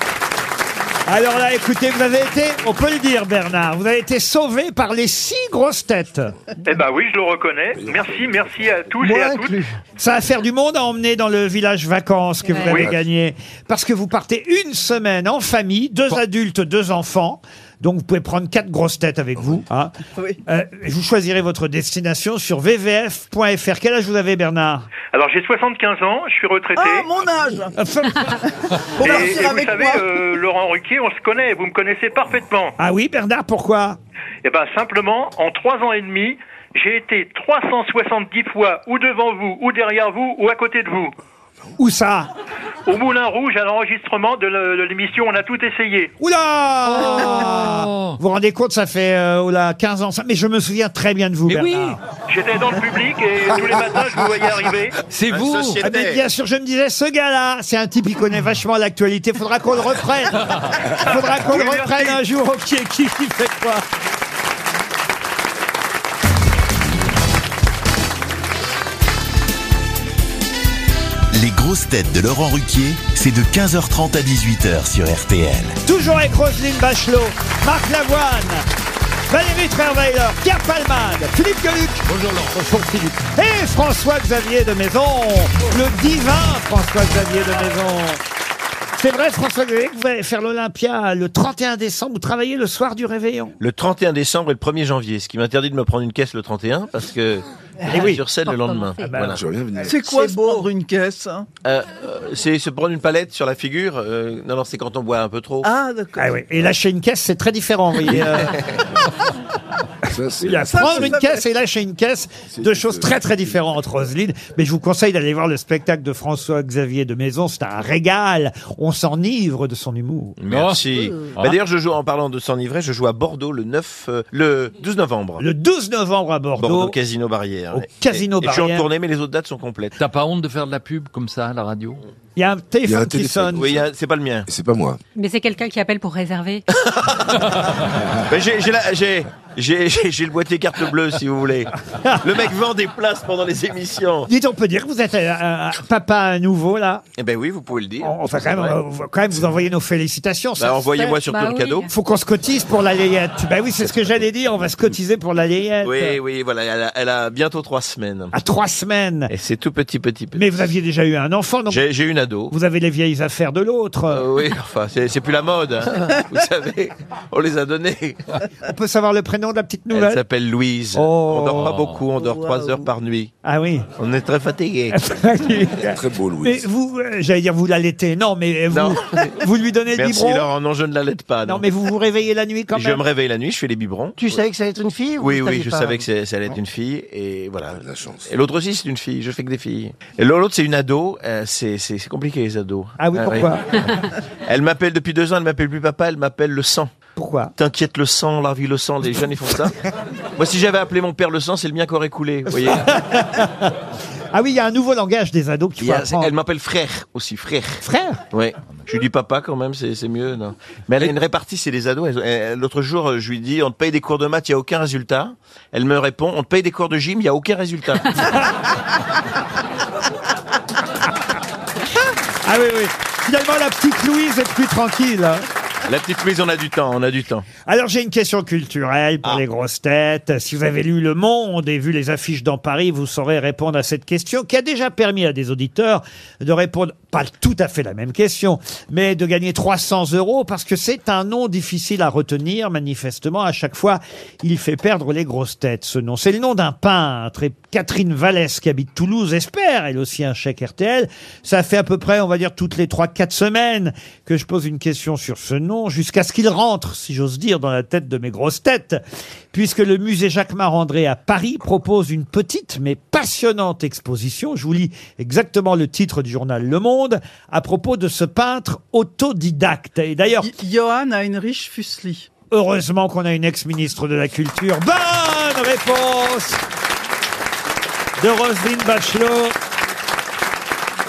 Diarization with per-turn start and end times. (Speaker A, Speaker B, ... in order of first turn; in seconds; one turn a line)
Speaker A: 1.1-6.3
Speaker B: 6.6-9.6
Speaker C: 7.8-8.5
Speaker D: 9.0-9.8
Speaker A: 10.0-19.9
Speaker E: 12.4-12.7
Speaker C: 12.7-13.0
Speaker F: 20.1-20.4
Speaker A: 20.5-24.9
Speaker B: 25.1-27.1
Speaker F: 26.7-30.2
Speaker A: 27.8-28.4
Speaker B: 29.0-32.7
Speaker A: 32.8-34.0
Speaker B: 34.4-41.1
Speaker A: 41.8-42.3
Speaker B: 42.9-46.1
Speaker A: 46.2-52.0
Speaker G: 46.9-48.2
Speaker G: 51.5-52.0
Speaker B: 52.3-55.0
Speaker G: 55.1-55.8
Speaker H: 55.3-56.2
Speaker A: 55.8-60.4
Speaker B: 60.9-62.2
Speaker A: 61.0-63.8
Speaker I: 71.3-75.8
Speaker A: 75.8-78.6
Speaker A: 79.3-88.2
Speaker G: 82.0-82.7
Speaker A: 89.0-93.5
Speaker H: 93.6-99.4
Speaker A: 97.9-98.2
Speaker E: 98.4-99.3
Speaker A: 99.0-99.8
Speaker C: 99.3-100.1
Speaker F: 99.8-101.5
Speaker H: 101.6-105.7
Speaker F: 105.6-106.5
Speaker A: 106.2-108.6
Speaker H: 108.1-108.6
Speaker C: 110.1-111.2
Speaker A: 110.4-120.4
Speaker F: 110.7-111.5
Speaker C: 112.5-113.4
Speaker H: 120.4-125.4
Speaker G: 120.5-121.5
Speaker A: 125.4-127.0
Speaker H: 126.6-129.9
Speaker A: 127.7-128.9
Speaker G: 130.0-132.0
Speaker A: 132.3-133.7
Speaker C: 132.8-133.8
Speaker H: 133.6-134.5
Speaker C: 134.4-135.0
Speaker E: 135.1-136.6
Speaker H: 136.9-137.4
Speaker H: 138.3-141.7
Speaker H: 142.2-144.3
Speaker A: 144.3-147.0
Speaker H: 147.2-148.8
Speaker A: 148.0-151.0
Speaker H: 150.6-151.9
Speaker E: 150.9-151.9
Speaker A: 151.9-156.2
Speaker H: 155.8-158.3
Speaker A: 158.3-159.3
Speaker H: 159.3-160.6
Speaker A: 160.3-161.8
Speaker H: 161.7-162.5
Speaker A: 162.5-164.2
Speaker H: 164.1-168.2
Speaker A: 168.6-170.2
Speaker H: 169.9-173.3
Speaker A: 170.9-171.7
Speaker G: 171.5-172.0
Speaker F: 172.2-172.9
Speaker A: 173.4-173.8
Speaker H: 174.0-174.9
Speaker A: 174.9-180.5
Speaker C: 175.9-176.7
Speaker H: 178.7-179.3
Speaker H: 179.9-181.7
Speaker A: 181.4-183.0
Speaker H: 182.7-184.4
Speaker D: 184.2-186.1
Speaker H: 185.2-193.5
Speaker C: 187.8-188.3
Speaker A: 193.0-193.6
Speaker H: 194.4-196.9
Speaker A: 197.2-197.5
Speaker H: 197.6-199.7
Speaker H: 200.4-202.9
Speaker A: 202.5-203.7
Speaker A: 204.3-206.3
Speaker H: 205.8-218.3
Speaker A: 207.8-208.2
Speaker A: 222.4-225.4
Speaker H: 225.8-227.5
Speaker A: 227.6-259.0
Speaker A: 259.5-270.5
Speaker F: 270.4-272.3
Speaker A: 272.5-276.6
Speaker A: 278.2-279.5